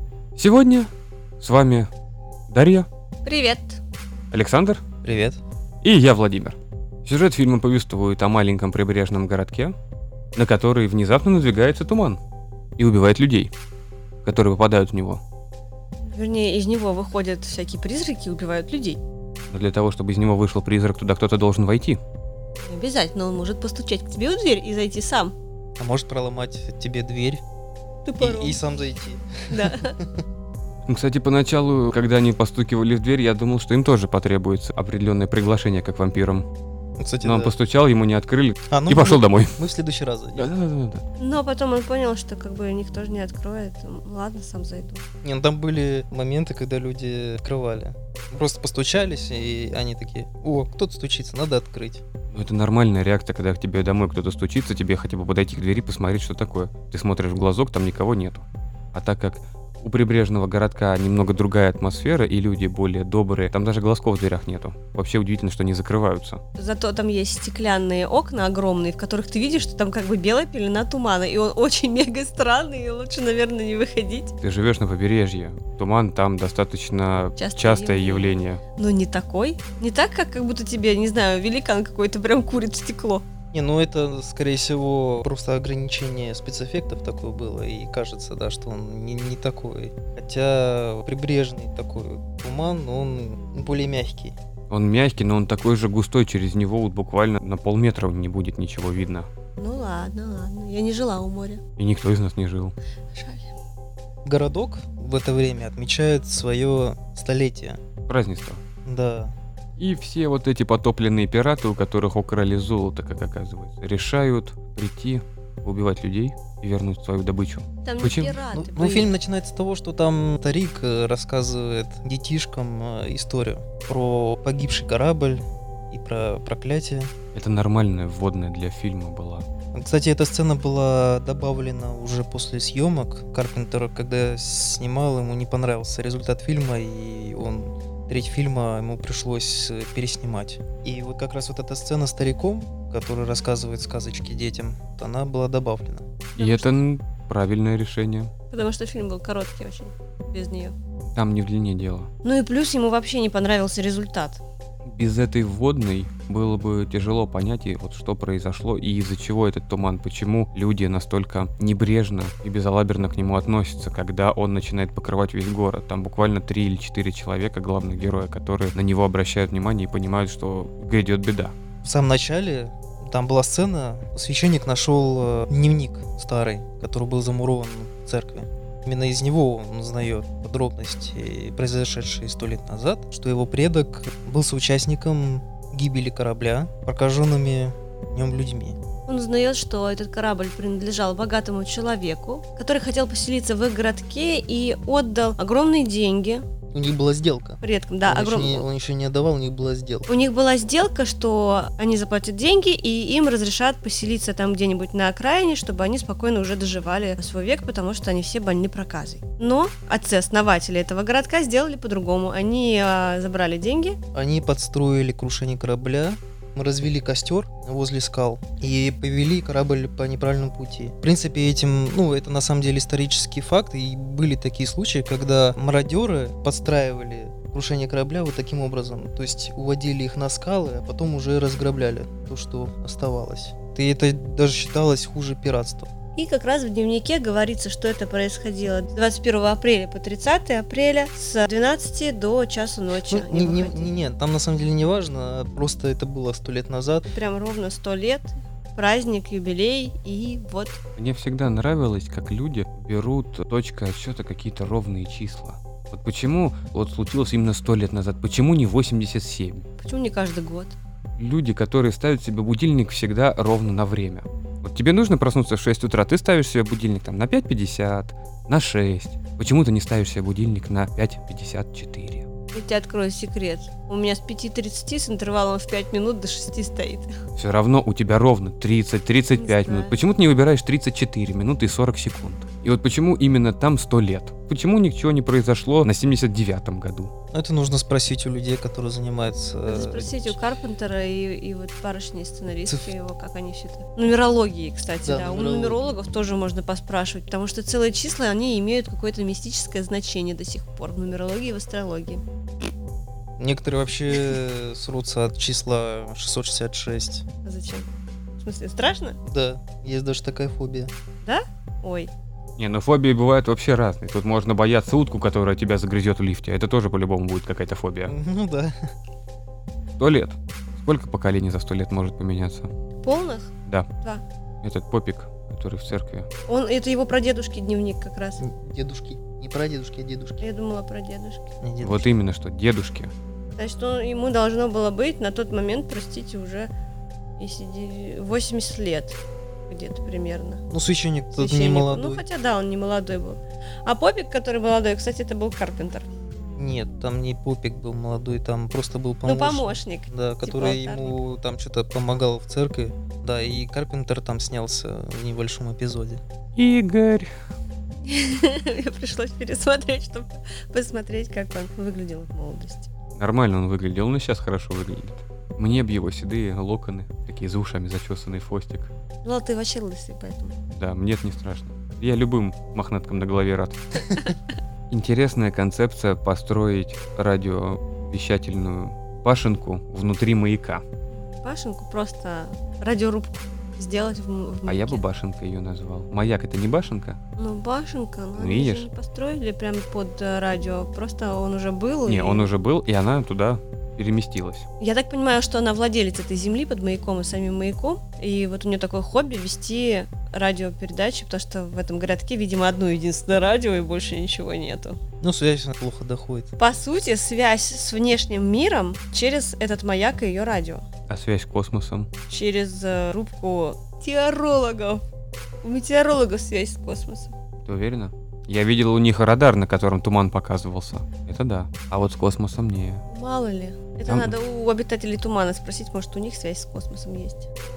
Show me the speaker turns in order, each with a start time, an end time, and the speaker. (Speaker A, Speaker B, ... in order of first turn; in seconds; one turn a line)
Speaker A: 0.3-1.9
Speaker A: 2.5-2.9
Speaker B: 3.2-3.8
Speaker A: 4.3-4.8
Speaker C: 5.0-5.4
Speaker A: 5.8-9.7
Speaker A: 10.3-12.2
Speaker A: 12.8-13.5
Speaker A: 14.2-15.2
Speaker B: 16.0-19.0
Speaker A: 19.5-22.0
Speaker B: 22.6-25.3
Speaker C: 25.8-27.4
Speaker B: 28.0-28.6
Speaker C: 28.2-30.2
Speaker B: 29.5-29.9
Speaker A: 30.9-36.5
Speaker C: 37.0-37.5
Speaker A: 37.2-39.6
Speaker C: 38.7-40.5
Speaker A: 40.4-41.0
Speaker B: 41.2-45.0
Speaker C: 45.2-52.0
Speaker A: 52.3-66.4
Speaker B: 66.6-74.3
Speaker A: 74.4-78.6
Speaker B: 77.4-83.2
Speaker C: 83.5-94.4
Speaker A: 94.7-99.3
Speaker B: 99.6-101.6
Speaker A: 101.8-102.7
Speaker B: 103.1-103.5
Speaker C: 104.2-107.8
Speaker A: 108.1-108.6
Speaker C: 108.8-109.3
Speaker A: 109.8-118.4
Speaker B: 117.8-119.1
Speaker C: 118.5-127.1
Speaker A: 127.3-129.5
Speaker C: 129.7-146.1
Speaker A: 146.4-148.3
Speaker B: 146.4-146.8
Speaker B: 148.5-150.7
Speaker A: 151.1-152.1
Speaker B: 152.2-154.4
Speaker A: 154.8-171.5
Speaker C: 171.8-188.8
Speaker B: 189.1-196.4
Speaker C: 196.7-200.1
Speaker B: 197.6-198.7
Speaker B: 200.1-214.0
Speaker C: 214.1-235.9
Speaker B: 236.2-243.9
Speaker C: 243.0-247.1
Speaker B: 247.1-250.8
Speaker A: 251.0-259.6
Speaker B: 259.8-260.8
Speaker A: 261.2-272.2
Speaker B: 272.5-277.1
Speaker A: 277.4-287.1
Speaker B: 279.4-279.9
Speaker C: 287.3-290.4
Speaker B: 289.6-302.2
Speaker C: 292.7-292.9
Speaker C: 295.0-295.9
Speaker C: 303.4-307.2
Speaker B: 307.4-309.2
Speaker C: 309.2-310.9
Speaker B: 311.2-312.1
Speaker A: 312.6-318.1
Speaker C: 318.1-318.8
Speaker A: 320.0-322.7
Speaker B: 323.0-324.2
Speaker A: 324.6-326.3
Speaker B: 326.5-328.4
Speaker C: 328.4-330.4
Speaker B: 330.4-331.5
Speaker C: 331.6-332.1
Speaker A: 331.8-333.1
Speaker B: 333.6-336.7
Speaker B: 337.4-340.6
Speaker C: 340.7-342.2
Speaker B: 341.3-346.1
Speaker C: 346.6-356.2
Speaker B: 349.2-351.2
Speaker A: 356.6-357.3
Speaker B: 358.0-362.9
Speaker A: 363.1-368.9
Speaker B: 369.2-370.6
Speaker A: 370.7-374.1
Speaker B: 374.1-374.4
Speaker A: 374.9-380.8
Speaker B: 381.1-385.0
Speaker A: 384.6-387.2
Speaker B: 387.4-392.5
Speaker A: 388.4-388.9
Speaker A: 392.1-394.6
Speaker B: 394.8-405.0
Speaker C: 405.2-406.5
Speaker B: 406.6-410.8
Speaker A: 411.1-412.1
Speaker B: 412.3-415.0
Speaker B: 415.6-417.3
Speaker A: 417.6-423.0
Speaker B: 423.1-427.5
Speaker A: 424.1-424.3